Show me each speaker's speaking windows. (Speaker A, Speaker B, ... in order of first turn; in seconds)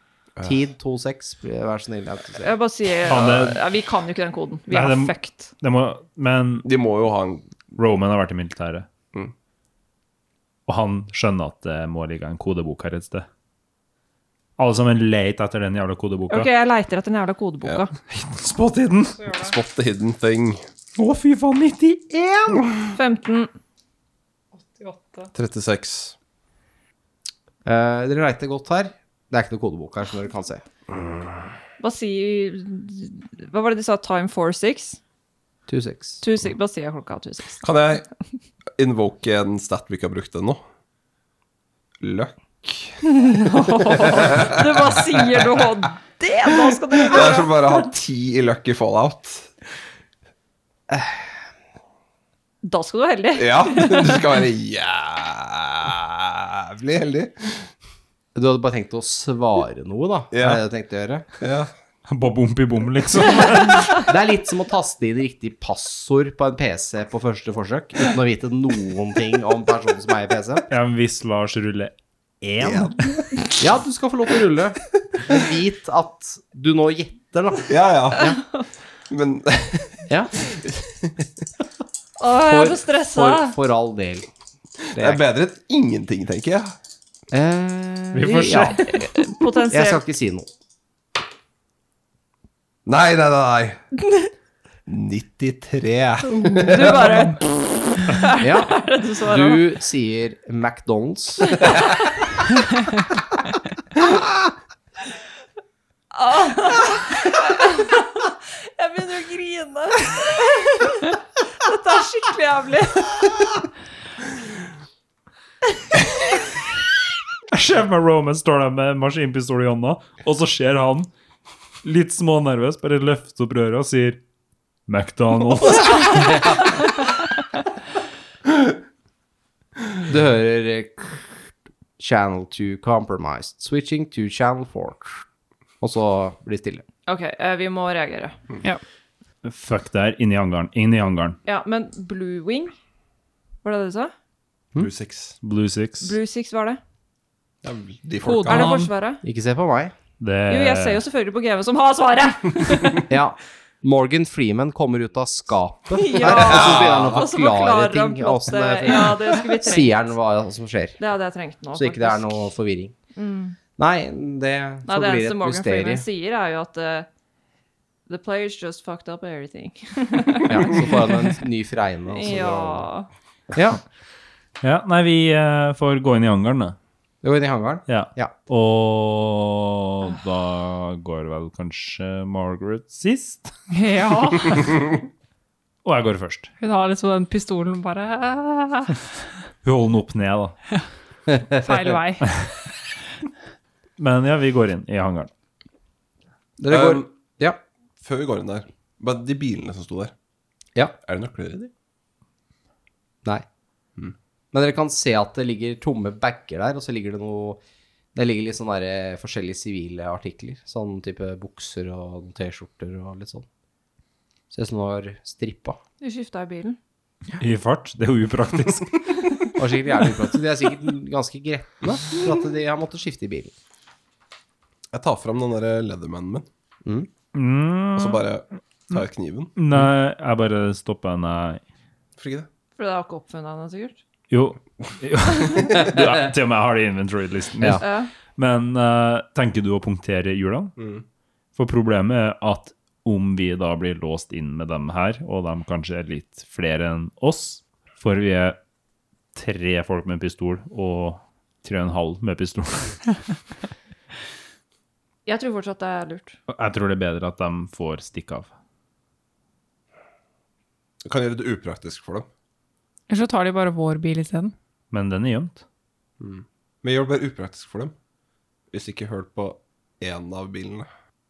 Speaker A: 0.4-2.5, 27.6-30.6, 35.7-36.2, 58.4-61.3, 64.0-70.7, 73.6-78.4, 80.1-80.3, 82.4-84.3, 84.9-85.2, 87.3-89.0, 89.7-90.5, 98.4-101.7, 130.1-131.4, 132.0-135.2, 135.8-136.8, 149.2-149.9, 153.1-161.0, 161.7-162.9, 163.8-166.1, 170.5-172.9, 173.5-173.8, 177.2-178.3, 191.3-191.9, 196.6-197.6, 204.5-207.6, 208.2-213.5, 214.5-215.8, 219.6-223.5
Speaker B: 2.4-5.5, 16.3-17.9, 22.9-23.5, 31.8-35.0, 36.2-37.6, 43.0-47.8, 52.6-54.4, 78.2-78.6, 82.2-83.6, 88.6-90.0, 96.6-99.7, 106.1-113.4, 137.1-138.4, 141.4-142.7, 143.6-144.1, 146.0-146.8, 148.5-149.2, 150.5-153.1, 156.0-160.1, 161.0-162.5, 163.2-163.6, 164.9-167.1, 168.1-171.3, 172.1-173.1, 216.0-216.8, 232.8-234.0, 237.8-238.1, 255.3-256.4
Speaker C: 3.1-3.6, 4.7-6.7, 7.8-8.9, 10.7-13.3, 14.6-16.5, 18.1-19.2, 20.9-22.8, 62.1-64.0, 70.7-73.2, 88.1-89.0, 117.5-121.1, 121.8-124.2, 124.9-126.9, 139.4-141.4, 145.4-146.2, 150.2-151.0, 174.6-176.8, 177.9-183.5, 185.8-186.5, 189.6-190.6, 194.0-195.3, 217.4-219.1, 227.3-228.2, 229.6-231.6, 234.3-240.8, 241.6-248.6, 249.3-253.1, 256.5-258.5, 264.9-265.6
Speaker D: 6.6-7.5, 19.3-20.6, 25.3-26.1, 30.9-31.5, 37.6-38.1, 38.8-40.6, 42.0-43.0, 43.9-45.4, 47.0-49.5, 53.4-57.7, 60.3-60.6, 61.4-61.7, 72.6-73.4, 77.7-78.3, 79.1-81.2, 84.9-86.8, 92.9-93.8, 94.9-97.2, 144.8-145.4, 147.6-148.8, 156.3-157.2, 196.7-197.1, 198.0-200.1, 201.0-201.7, 224.9-226.5, 227.9-229.5, 232.2-232.5, 240.8-241.0, 261.0-262.3, 266.2-267.9, 268.7-270.9
Speaker E: 19.2-19.5, 24.6-25.3, 148.2-148.9, 183.7-184.8, 186.6-189.0, 191.5-192.4, 263.1-264.5